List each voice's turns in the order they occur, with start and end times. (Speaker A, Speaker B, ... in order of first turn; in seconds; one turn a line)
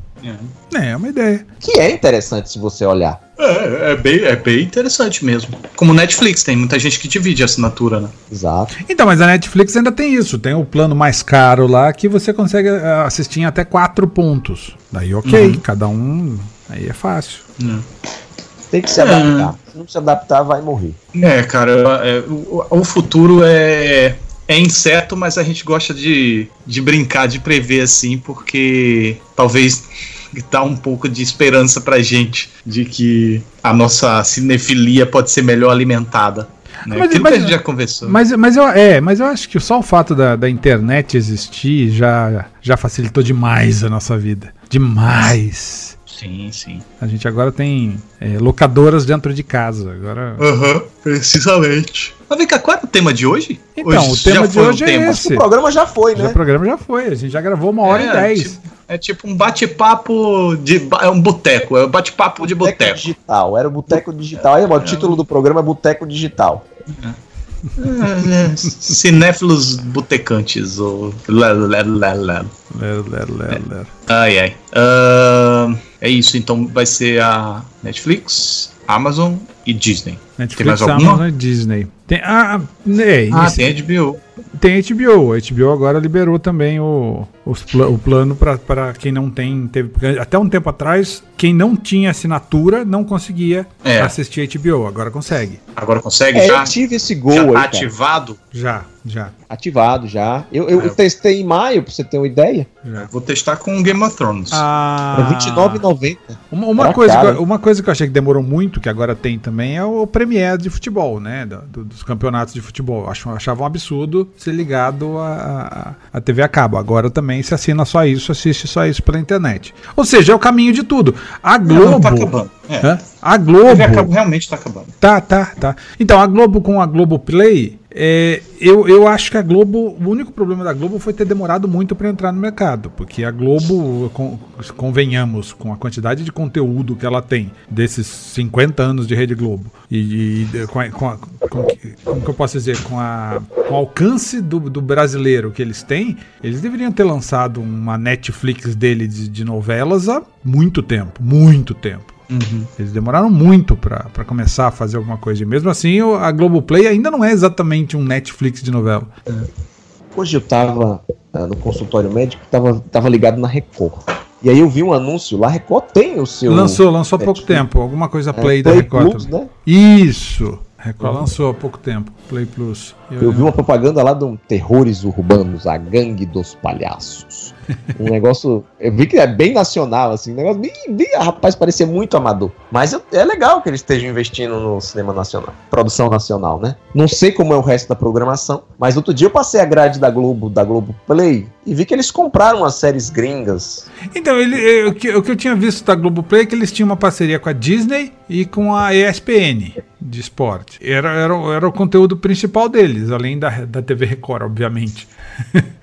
Speaker A: 0.2-0.5
Speaker B: 0.7-1.4
Speaker C: 1.6-3.2
Speaker A: 3.4-8.1
Speaker C: 8.3-8.7
Speaker B: 8.9-17.4
Speaker A: 15.2-15.6
Speaker A: 17.6-17.9
Speaker C: 18.7-21.0
Speaker A: 18.9-19.5
Speaker A: 21.1-38.2
Speaker B: 36.9-46.0
Speaker A: 46.1-46.9
Speaker B: 47.0-50.4
Speaker A: 50.4-55.2
Speaker B: 53.8-55.4
Speaker C: 55.0-56.4
Speaker B: 56.1-58.6
Speaker A: 57.8-63.1
Speaker C: 62.5-66.6
Speaker A: 64.8-65.2
Speaker A: 66.9-67.2
Speaker A: 67.8-72.5
Speaker B: 67.9-68.7
Speaker B: 72.7-73.9
Speaker A: 73.5-81.2
Speaker B: 80.4-83.7
Speaker A: 83.3-84.2
Speaker B: 84.6-95.6
Speaker A: 93.8-94.1
Speaker A: 95.8-96.7
Speaker C: 96.3-97.9
Speaker A: 97.3-98.4
Speaker B: 98.5-99.3
Speaker C: 99.5-102.7
Speaker B: 102.8-103.1
Speaker A: 103.0-104.6
Speaker B: 104.5-105.8
Speaker C: 105.1-107.4
Speaker B: 106.5-124.1
Speaker A: 121.7-122.9
Speaker A: 123.6-125.0
Speaker B: 125.0-152.2
Speaker A: 152.3-152.7
Speaker B: 152.8-159.1
Speaker C: 160.1-167.6
Speaker B: 166.5-173.5
Speaker C: 168.3-169.5
Speaker C: 173.2-193.9
Speaker B: 194.1-205.7